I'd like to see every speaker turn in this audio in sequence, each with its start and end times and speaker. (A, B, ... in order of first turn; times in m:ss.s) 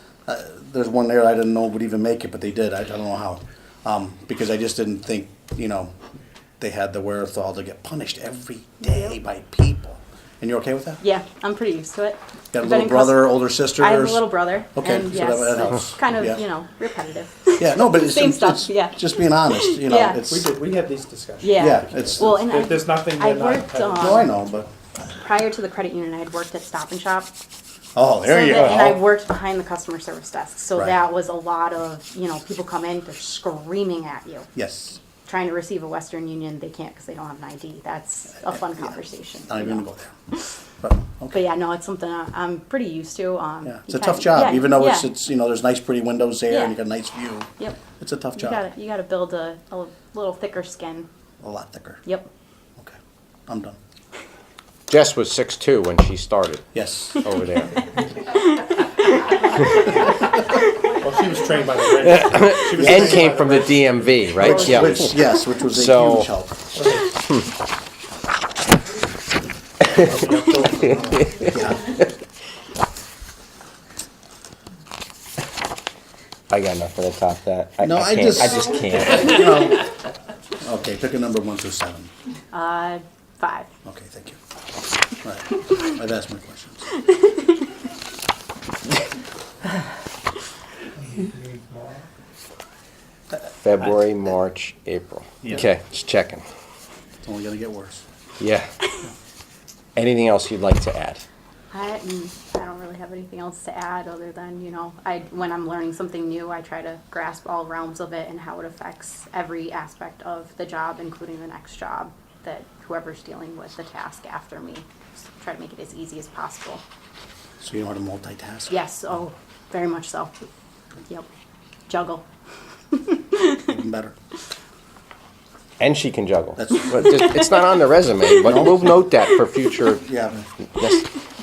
0:00.3-0:05.9 A
0:06.6-0:11.0 A
0:11.0-0:20.3 B
0:12.5-0:16.4 A
0:17.6-0:20.5 A
0:20.3-0:24.3 C
0:21.4-0:24.3 B
0:21.6-0:22.4 A
0:24.0-0:24.7 A
0:25.2-0:27.3 B
0:28.0-0:29.0 A
0:28.2-0:34.5 B
0:34.6-0:35.0 A
0:35.2-0:39.8 B
0:39.5-0:40.2 A
0:40.8-0:41.4 A
0:41.3-0:45.1 B
0:43.6-0:48.6 A
0:46.5-0:46.8 B
0:48.4-0:51.1 B
0:51.4-0:52.0 A
0:53.5-0:53.8 A
0:54.9-0:56.6 D
0:56.7-0:57.2 A
0:57.2-0:57.8 D
1:01.0-1:04.0 C
1:02.0-1:06.3 D
1:02.7-1:03.3 A
1:04.4-1:06.8 A
1:10.0-1:11.9 A
1:16.5-1:19.6 D
1:17.8-1:19.9 A
1:20.6-1:22.1 A
1:22.5-1:23.7 B
1:23.8-1:24.4 A
1:25.2-1:26.9 A
1:33.6-1:36.4 D
1:37.2-1:38.0 A
1:38.4-1:38.7 D
1:40.0-1:41.2 D
1:41.7-1:54.9 B
1:55.4-1:56.8 B
1:57.6-1:58.7 A
1:58.7-2:00.3 B
2:01.9-2:02.2 B
2:02.9-2:03.6 B
2:03.6-2:04.2 A
2:05.8-2:10.1 D
2:06.6-2:07.2 A
2:08.4-2:08.9 A
2:10.0-2:10.4 A
2:10.8-2:11.1 D